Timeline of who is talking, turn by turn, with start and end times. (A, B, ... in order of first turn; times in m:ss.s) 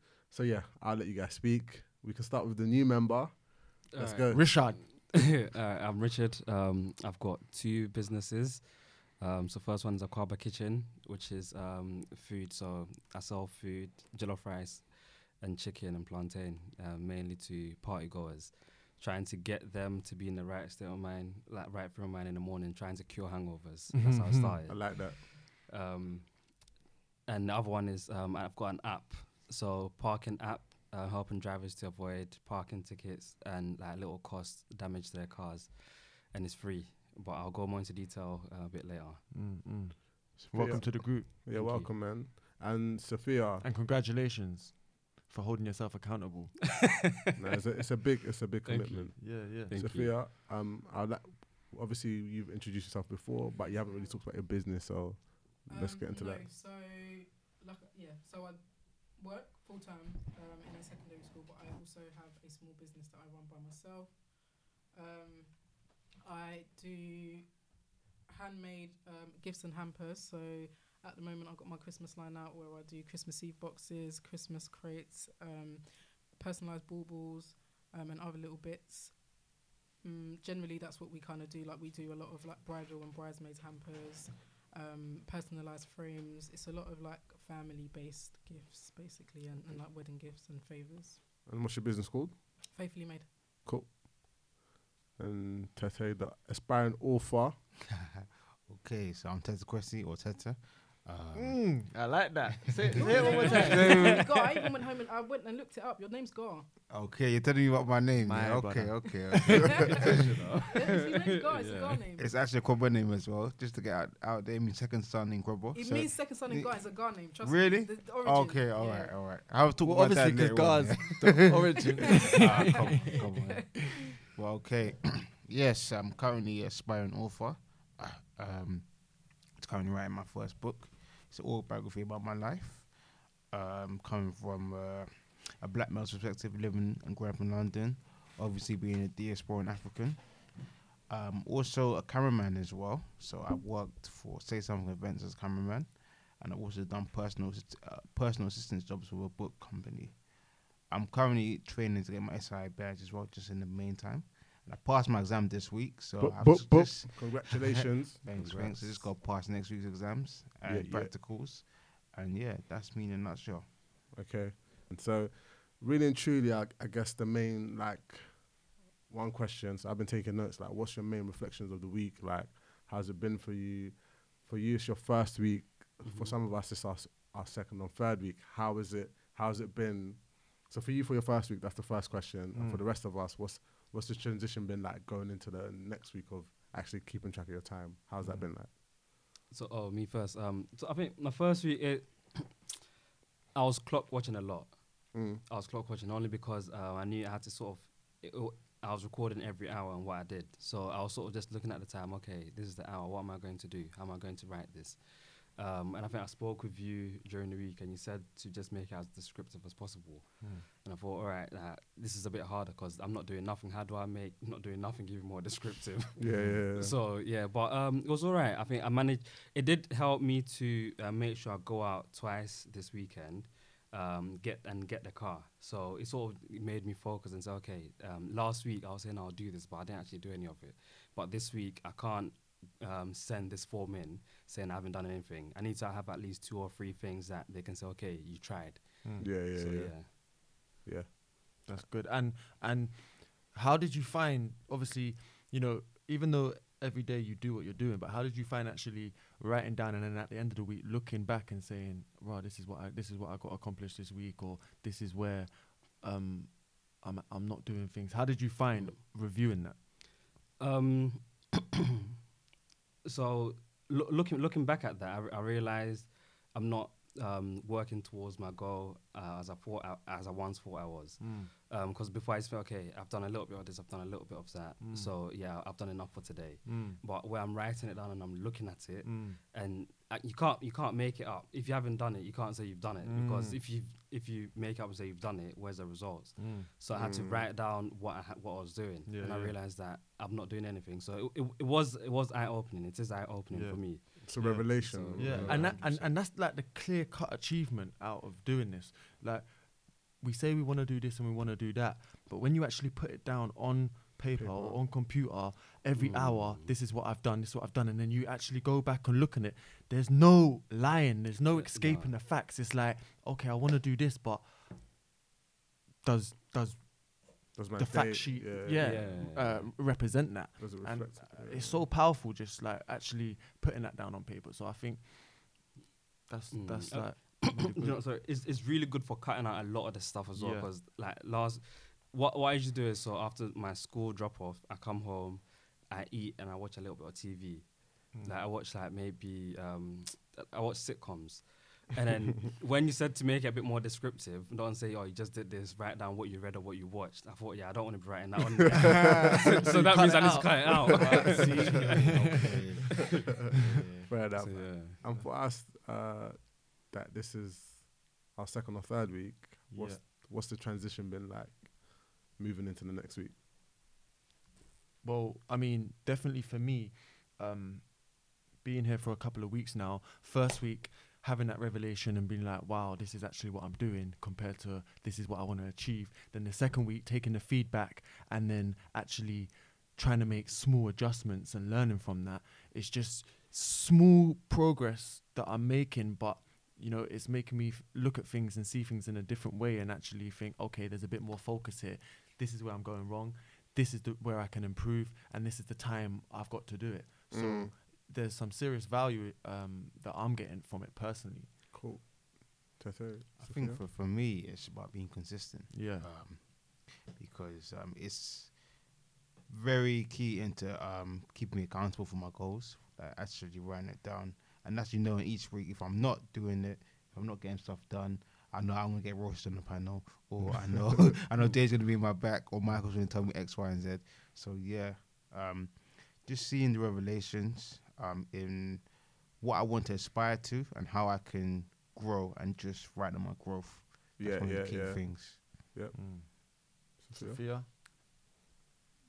0:00.3-0:04.4 A
0:03.9-0:26.7 B
0:04.3-0:04.8 C
0:23.9-0:24.5 C
0:24.7-0:25.2 A
0:27.2-0:39.2 B
0:39.3-0:41.3 C
0:40.4-0:43.6 A
0:41.5-0:41.9 B
0:43.6-0:46.9 C
0:47.4-0:56.4 A
0:48.6-0:50.2 B
0:49.2-0:49.7 C
0:55.7-1:07.7 D
1:08.2-1:31.2 D
1:31.4-1:32.4 A
1:32.7-1:33.3 D
1:33.6-1:34.5 A
1:35.2-1:37.6 A
1:38.3-1:41.9 E
1:41.3-1:44.2 C
1:42.9-1:44.3 E
1:43.0-1:46.7 D
1:43.4-1:44.2 B
1:46.9-1:50.2 E
1:48.2-1:50.1 C
1:50.0-1:52.0 B
1:50.7-1:52.3 D
1:52.2-2:01.8 E
1:55.7-1:59.2 D
1:59.8-2:03.6 C
2:02.3-2:03.9 D
2:02.3-2:30.3 E
2:30.8-2:44.0 E
2:36.2-2:39.0 A
2:40.6-2:41.1 A
2:44.1-3:08.7 A
2:56.0-2:56.3 B
3:02.5-3:02.8 C
3:09.5-3:12.6 B
3:13.5-4:00.1 B
3:15.1-3:15.4 A
3:36.2-3:37.0 A
3:36.3-3:36.6 C
3:59.0-3:59.3 C
3:59.2-4:01.1 A
4:01.6-4:19.8 C
4:20.6-4:21.7 B
4:23.0-4:56.0 B
4:31.2-4:31.5 C
4:34.8-4:35.1 C
4:36.6-4:37.0 C
4:39.0-4:39.4 C
4:43.0-4:43.6 C
4:46.4-4:46.7 C
4:46.9-4:47.4 A
4:49.0-4:49.5 C
4:53.5-5:14.8 C
4:54.2-4:56.1 A
5:04.4-5:04.8 A
5:06.0-5:06.7 B
5:11.5-5:12.1 B
5:16.0-5:25.8 C
5:17.5-5:19.0 A
5:18.8-5:19.7 B
5:20.6-5:21.9 A
5:26.3-5:28.0 C
5:26.5-5:53.1 B
5:30.3-5:30.7 C
5:49.4-5:52.7 C
5:52.0-5:53.0 E
5:53.5-5:54.1 E
5:54.1-6:03.4 A
5:54.3-5:55.0 B
5:59.7-6:00.0 C
6:05.0-6:41.5 C
6:37.3-6:37.7 A
6:41.7-6:43.8 A
6:43.4-7:15.5 E
6:45.7-6:46.1 C
7:14.2-7:16.3 A
7:15.9-7:17.7 C
7:17.0-7:17.4 A